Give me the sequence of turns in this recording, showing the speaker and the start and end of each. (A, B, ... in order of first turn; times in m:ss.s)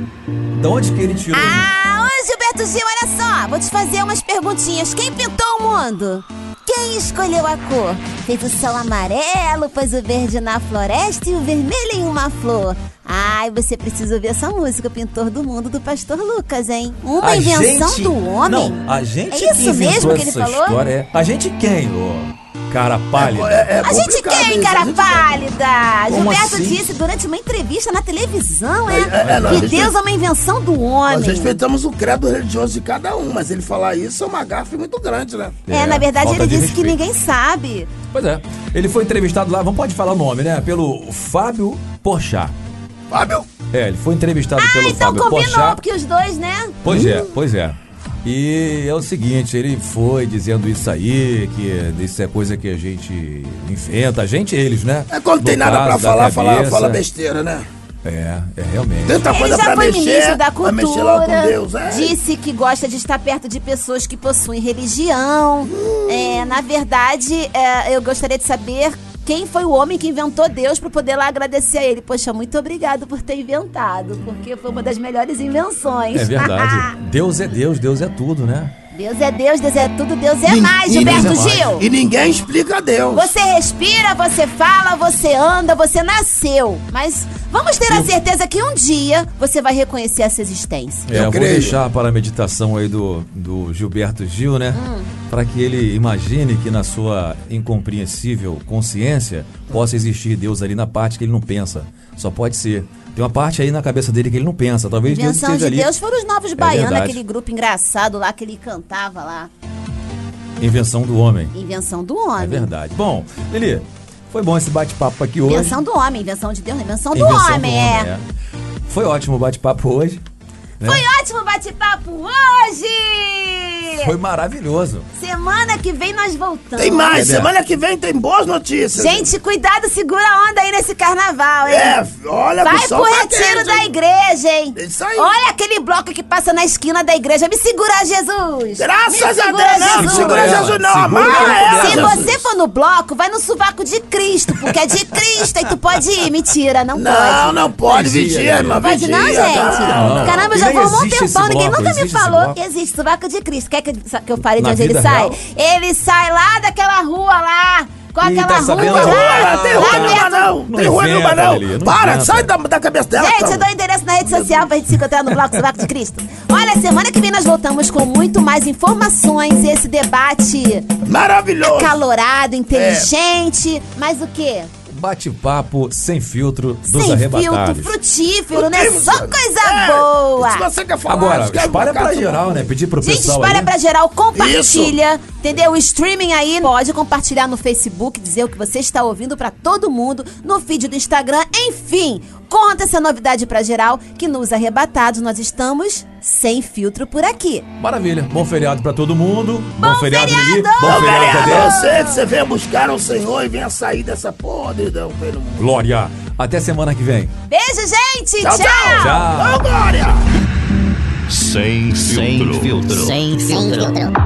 0:00.5-0:01.7 A
0:01.3-0:18.8 B
0:17.2-0:23.7 A
0:19.3-0:20.9 B
0:23.1-0:25.3 C
0:23.8-0:31.6 B
0:26.1-0:26.9 A
0:28.8-0:29.9 C
0:29.2-0:29.8 A
0:31.1-0:35.6 C
0:35.7-0:37.0 A
0:35.7-0:37.9 B
0:38.1-0:42.5 A
0:43.1-0:43.4 C
0:43.7-0:45.8 A
0:44.6-0:46.8 B
0:46.8-0:57.0 A
0:46.8-0:47.3 C
0:55.1-0:57.7 C
0:58.0-0:59.3 A
0:59.0-1:02.1 C
0:59.2-1:16.9 B
1:05.7-1:06.5 C
1:16.1-1:18.7 A
1:18.9-1:21.8 B
1:20.4-1:23.3 C
1:20.9-1:21.7 A
1:23.1-1:31.1 B
1:31.1-1:46.0 A
1:31.1-1:31.8 C
1:34.7-1:35.1 B
1:45.0-1:49.5 B
1:46.6-1:47.2 A
1:50.6-1:51.5 A
1:51.5-1:52.7 B
1:52.4-1:55.8 A
1:55.4-1:58.1 B
1:57.1-1:58.2 A
1:58.9-2:00.2 A
2:00.8-2:01.0 A
2:00.8-2:04.1 B
2:04.0-2:05.0 A
2:05.2-2:07.3 B
2:06.8-2:09.3 C
2:07.1-2:07.5 A
2:09.0-2:12.0 B
2:11.6-2:13.9 C
2:12.6-2:20.7 B
2:14.7-2:15.3 C
2:18.8-2:22.4 C
2:19.9-2:22.2 A
2:21.3-2:27.6 B
2:26.9-2:30.6 C
2:27.8-2:28.8 A
2:28.8-2:40.5 B
2:29.6-2:32.6 A
2:34.6-2:35.4 A
2:38.2-2:42.5 A
2:38.7-2:43.7 C
2:43.2-2:50.9 B
2:44.2-2:44.8 C
2:51.0-2:52.0 C
2:51.6-2:54.7 B
2:52.7-2:53.1 C
2:54.9-2:58.0 A
2:56.8-3:00.7 B
2:58.5-3:02.6 C
3:01.0-3:03.7 A
3:03.0-3:17.6 B
3:04.3-3:05.0 C
3:17.8-3:21.8 A
3:19.8-3:22.2 B
3:20.8-3:25.6 C
3:25.6-3:27.3 A
3:27.5-3:29.2 B
3:28.4-3:30.2 C
3:28.9-3:29.7 A
3:31.3-3:33.3 D
3:32.0-3:34.1 E